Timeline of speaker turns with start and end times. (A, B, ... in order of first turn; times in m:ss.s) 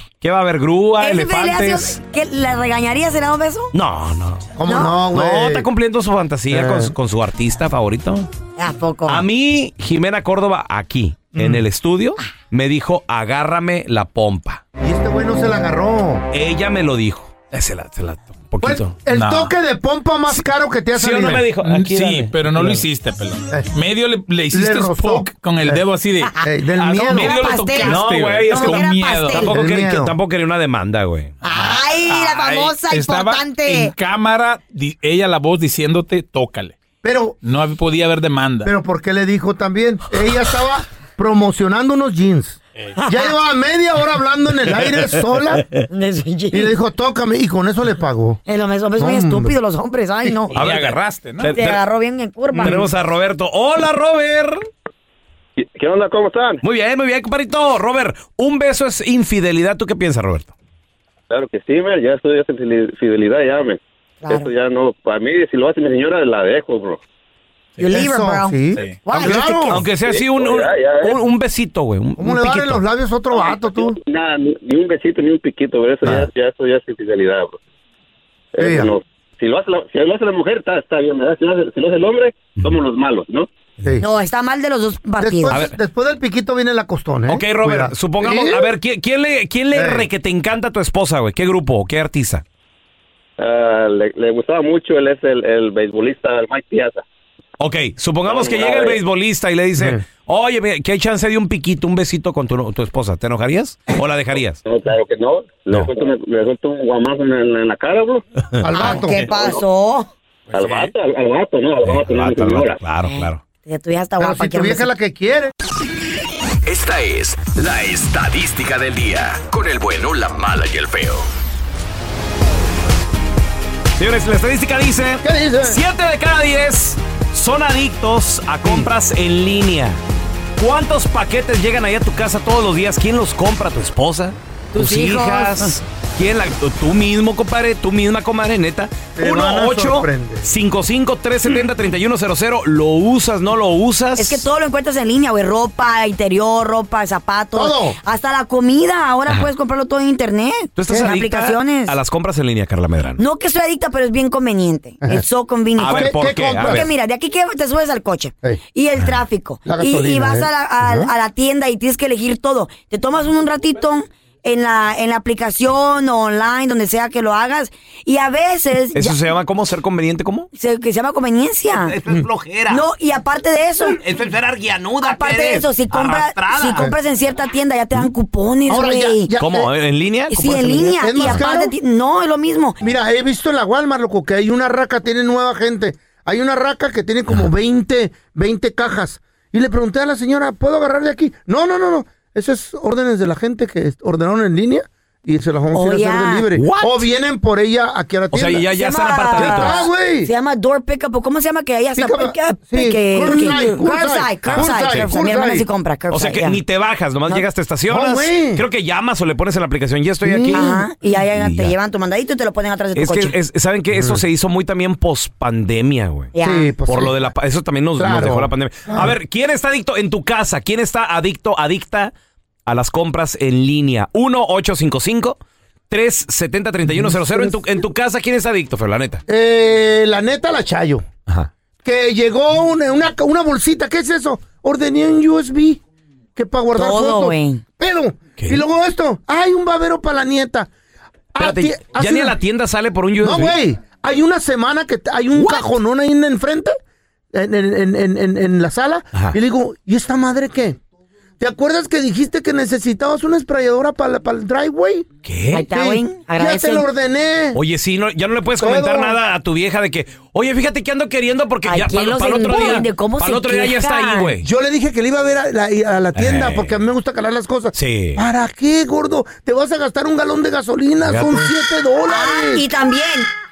0:00.2-0:02.0 A
0:01.0-0:03.7 B
0:03.7-0:04.5 A
0:04.6-0:05.7 C
0:04.6-0:05.0 B
0:05.1-0:08.3 A
0:06.5-0:06.9 C
0:08.6-0:09.2 B
0:09.0-0:14.6 A
0:11.3-0:11.6 C
0:14.8-0:16.2 C
0:16.3-0:19.0 A
0:18.6-0:21.5 C
0:19.1-0:19.5 D
0:20.9-0:22.8 A
0:21.2-0:29.5 D
0:24.5-0:25.8 C
0:26.2-0:26.5 B
0:26.4-0:27.4 C
0:27.1-0:29.5 B
0:27.8-0:31.3 A
0:29.3-0:30.1 C
0:31.4-0:33.9 B
0:31.4-0:36.8 D
0:37.0-0:37.4 C
0:37.4-0:38.7 D
0:38.6-0:45.7 C
0:43.0-0:43.3 B
0:45.9-0:46.7 B
0:46.5-0:48.4 C
0:48.5-0:50.6 B
0:49.0-0:49.6 C
0:50.5-0:51.6 D
0:50.5-0:51.8 A
0:51.5-0:52.9 B
0:52.5-0:52.8 C
0:52.6-0:54.6 A
0:55.6-0:56.6 E
0:56.6-1:00.5 A
1:01.3-1:07.0 E
1:04.2-1:04.5 B
1:07.8-1:09.8 B
1:07.8-1:09.8 C
1:08.7-1:09.0 D
1:09.2-1:12.8 A
1:10.0-1:11.2 E
1:12.2-1:14.0 C
1:13.3-1:17.6 E
1:18.5-1:23.5 E
1:18.6-1:18.9 C
1:24.0-1:25.6 B
1:25.2-1:28.7 C
1:27.3-1:32.4 A
1:29.7-1:30.1 C
1:33.4-1:37.0 E
1:37.6-1:44.6 A
1:38.2-1:39.0 E
1:39.8-1:40.0 C
1:44.6-1:48.2 E
1:48.6-1:49.3 C
1:48.7-1:50.1 B
1:49.3-1:49.6 E
1:50.5-1:52.8 E
1:50.6-1:50.9 D
1:51.8-1:53.4 A
1:53.0-1:54.9 B
1:54.2-1:55.5 C
1:56.6-2:01.2 F
2:04.0-2:10.0 A
2:05.2-2:05.8 C
2:10.6-2:24.4 A
2:14.7-2:15.7 B
2:19.2-2:20.5 C
2:24.2-2:32.0 B
2:27.5-2:28.0 C
2:30.8-2:33.2 A
2:30.9-2:31.1 C
2:33.2-2:49.2 B
2:35.8-2:36.9 A
2:35.8-2:36.9 C
2:39.6-2:41.1 C
2:48.9-2:50.5 A
2:50.5-2:52.0 B
2:51.7-2:52.8 A
2:52.7-2:54.0 B
2:53.9-2:56.9 A
2:55.0-2:59.3 B
2:58.7-2:59.7 C
2:59.4-3:01.4 A
3:00.3-3:02.8 B
3:00.7-3:01.7 C
3:02.8-3:18.7 C
3:15.7-3:16.5 B
3:16.5-3:17.1 A
3:18.3-3:19.8 A
3:18.7-3:26.6 B
3:19.3-3:20.3 C
3:22.0-3:25.7 C
3:23.4-3:23.7 A
3:24.4-3:25.1 A
3:26.1-3:30.8 A
3:27.9-3:28.6 C
3:30.2-3:30.8 C
3:30.5-3:33.3 B
3:31.3-3:31.7 A
3:32.9-3:36.3 A
3:33.9-3:34.2 C
3:36.3-3:36.7 B
3:36.4-3:37.3 C
3:36.9-3:42.1 A
3:38.0-3:39.2 C
3:42.6-3:45.4 A
3:45.9-3:49.2 A
3:46.9-3:47.6 C
3:49.3-3:51.0 C
3:51.8-3:55.8 C
3:56.4-4:00.7 C
3:56.8-3:57.6 B
3:58.4-3:58.6 A
4:01.3-4:02.4 C
4:01.4-4:03.6 A
4:03.2-4:06.8 C
4:05.4-4:05.6 A
4:07.3-4:10.8 C
4:11.4-4:15.1 C
4:15.2-4:15.6 A
4:15.5-4:16.8 B
4:15.7-4:17.6 C
4:17.5-4:24.4 A
4:18.6-4:19.2 C
4:21.6-4:24.3 B
4:24.4-4:32.6 C
4:26.1-4:26.7 A
4:27.7-4:28.2 A
4:31.0-4:31.5 A
4:32.1-4:33.3 B